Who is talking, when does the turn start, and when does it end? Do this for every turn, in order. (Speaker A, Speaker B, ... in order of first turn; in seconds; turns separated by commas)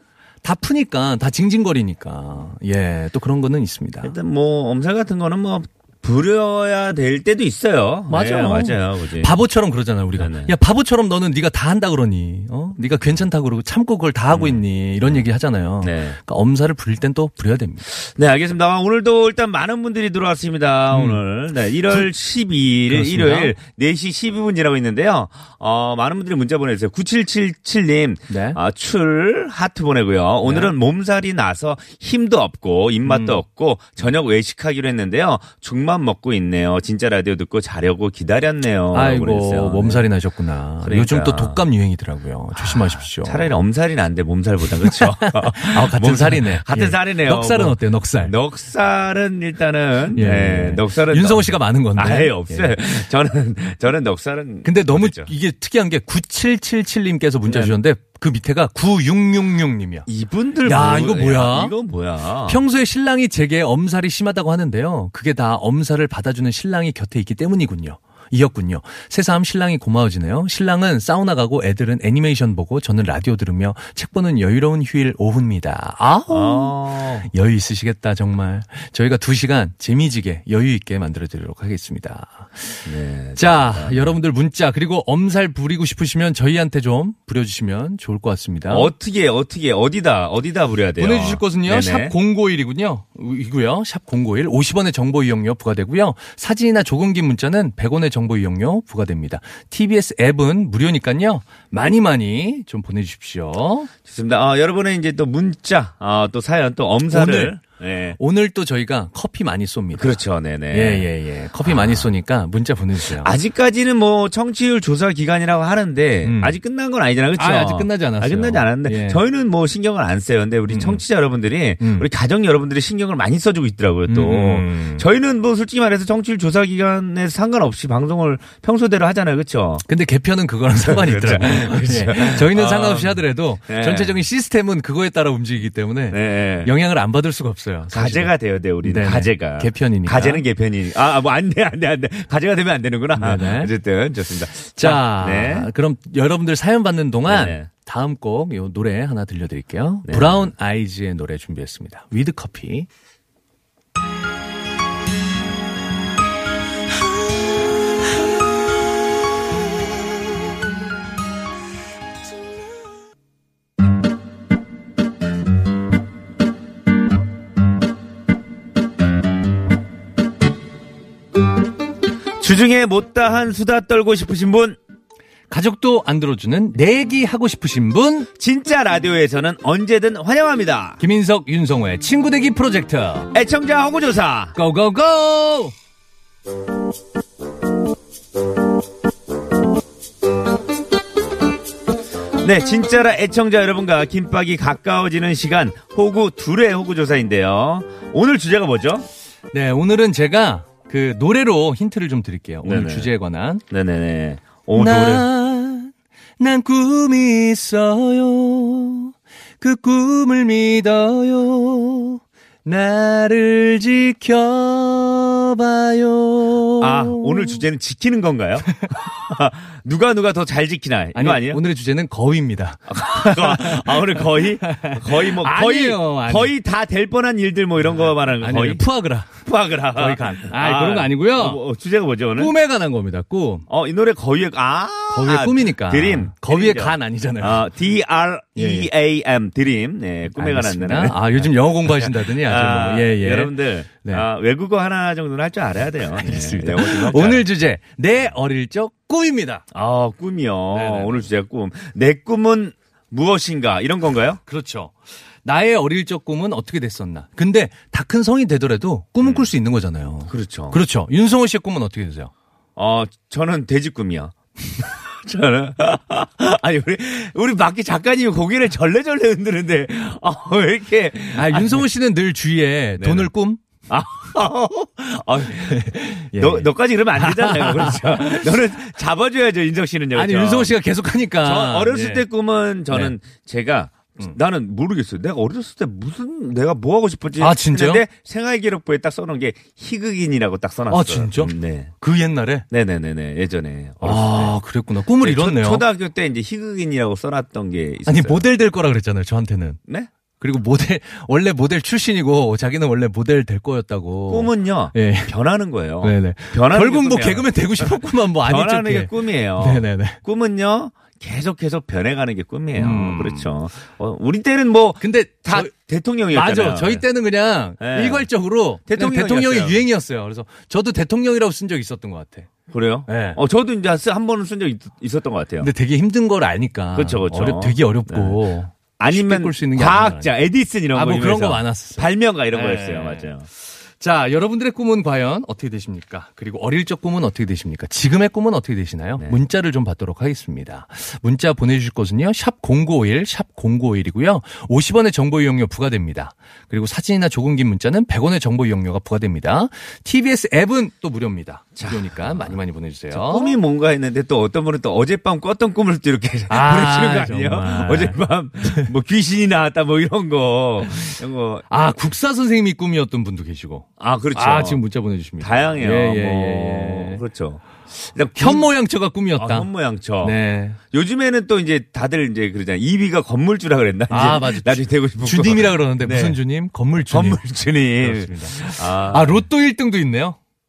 Speaker A: 0.4-4.1, Speaker B: 4.0-9.3, Speaker A: 8.1-17.9, Speaker B: 10.2-10.5, Speaker B: 14.3-15.2, Speaker B: 15.8-16.2, Speaker B: 17.9-40.1, Speaker A: 20.9-21.2, Speaker A: 22.9-23.5, Speaker A: 28.3-28.6, Speaker A: 30.4-30.7, Speaker A: 33.0-33.4, Speaker A: 38.9-43.5, Speaker B: 40.8-41.6, Speaker B: 42.5-55.3, Speaker A: 44.8-48.3, Speaker A: 50.1-52.7, Speaker A: 54.6-60.1, Speaker B: 57.5-57.8, Speaker B: 60.0-62.6, Speaker A: 60.6-61.7, Speaker A: 62.5-88.9, Speaker B: 76.3-77.3, Speaker B: 82.8-84.2, Speaker B: 88.7-92.1, Speaker A: 91.0-103.9, Speaker B: 104.0-108.2, Speaker A: 107.1-107.6, Speaker A: 108.2-110.2, Speaker B: 109.9-111.1, Speaker A: 110.7-113.3, Speaker B: 111.6-112.1, Speaker B: 113.2-129.8, Speaker A: 116.2-116.5, Speaker A: 117.3-119.2, Speaker A: 120.7-121.0, Speaker A: 121.8-122.1, Speaker A: 124.1-125.0, Speaker A: 129.8-138.3, Speaker B: 130.8-134.2, Speaker B: 136.1-136.7, Speaker B: 137.9-145.7, Speaker A: 138.8-140.4, Speaker A: 143.2-143.7, Speaker A: 144.8-152.9, Speaker B: 147.3-147.7, Speaker B: 150.1-150.5, Speaker B: 172.4-174.8, Speaker A: 175.5-178.3, Speaker B: 178.3-181.0, Speaker A: 181.0-183.3, Speaker B: 183.3-184.5, Speaker A: 184.5-185.7, Speaker B: 192.4-199.1, Speaker A: 199.5-203.6, Speaker B: 202.6-203.1, Speaker B: 203.7-205.2, Speaker A: 204.7-217.6, Speaker B: 216.8-221.6, Speaker A: 221.1-226.5, Speaker B: 222.9-228.8, Speaker A: 227.8-229.4, Speaker B: 229.4-232.5, Speaker A: 229.9-231.6, Speaker A: 232.4-233.7, Speaker B: 233.7-247.4, Speaker A: 235.1-237.7, Speaker A: 238.6-238.9, Speaker A: 240.3-244.2, Speaker A: 246.2-249.6, Speaker B: 249.7-254.4, Speaker A: 250.7-251.3, Speaker A: 254.5-262.3, Speaker B: 259.2-259.5, Speaker B: 260.3-260.8, Speaker B: 262.8-271.8, Speaker A: 271.3-273.6, Speaker B: 273.0-273.3, Speaker B: 273.9-280.7, Speaker A: 275.6-278.7, Speaker A: 280.1-282.2, Speaker B: 281.4-291.9, Speaker A: 287.4-288.0, Speaker A: 290.9-292.6, Speaker B: 292.7-294.5, Speaker A: 294.0-295.8, Speaker B: 295.2-298.4, Speaker A: 298.1-299.8, Speaker A: 300.4-305.3, Speaker B: 304.3-317.0, Speaker A: 306.0-310.2, Speaker A: 312.8-313.5, Speaker A: 315.0-315.7, Speaker A: 316.3-322.5, Speaker B: 317.8-318.3, Speaker B: 318.9-319.8, Speaker B: 322.7-325.7, Speaker A: 323.1-323.4, Speaker A: 325.6-330.3, Speaker B: 326.9-328.4, Speaker B: 329.0-333.5, Speaker A: 330.9-333.3, Speaker A: 334.0-353.6, Speaker B: 351.8-352.6, Speaker B: 353.1-361.6, Speaker A: 356.5-358.9, Speaker A: 361.7-367.2, Speaker B: 364.0-364.8, Speaker B: 365.4-368.7, Speaker A: 368.4-369.7, Speaker B: 369.4-370.4, Speaker A: 370.2-370.8, Speaker B: 370.9-376.4, Speaker A: 374.1-380.4, Speaker B: 377.1-379.4